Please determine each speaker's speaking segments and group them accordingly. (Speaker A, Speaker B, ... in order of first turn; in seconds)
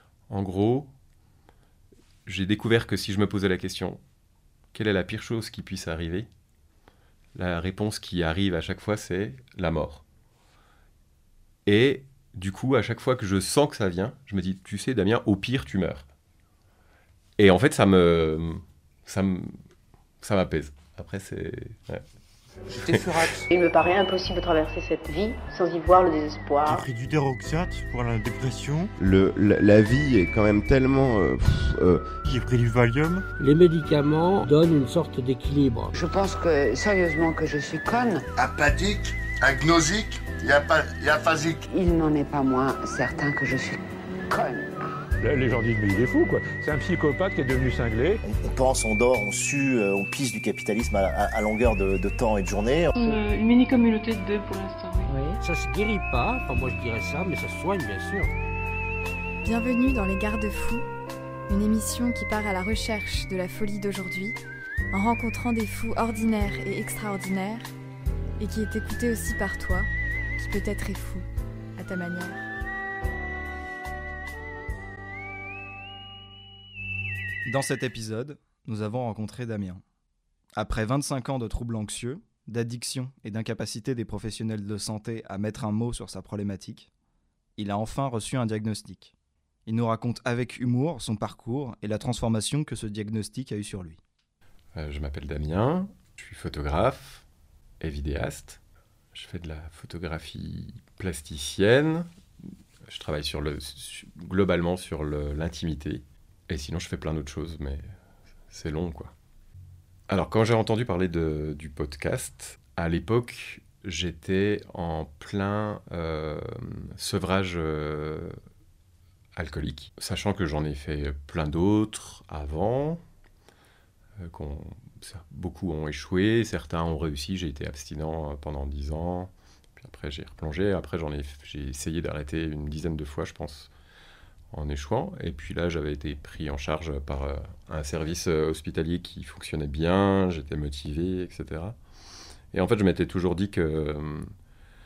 Speaker A: 0.3-0.9, 2.3-4.0, 4.7-6.3, 7.3-10.0, 11.7-16.1, 17.4-19.6, 20.2-22.0, 94.8-97.2, 97.8-98.6, 99.1-102.1, 102.9-107.8, 108.5-109.1, 110.1-118.4, 119.3-123.0, 124.2-133.7, 134.5-141.8, 142.5-144.3
Speaker B: 22.9-23.4, 26.6-28.9, 32.2-33.2
Speaker C: 23.5-26.9
Speaker D: 29.0-32.1
Speaker E: 33.4-35.9, 55.4-58.3
Speaker F: 35.9-38.3, 41.7-43.8, 44.3-44.8
Speaker G: 38.4-41.6
Speaker H: 45.2-48.2
Speaker I: 48.2-53.0
Speaker J: 53.0-55.1
Speaker K: 59.4-60.8, 61.5-64.4, 64.9-67.7, 68.4-71.2, 71.8-72.4
Speaker L: 77.5-79.8, 80.6-86.9, 87.6-89.1, 89.7-94.0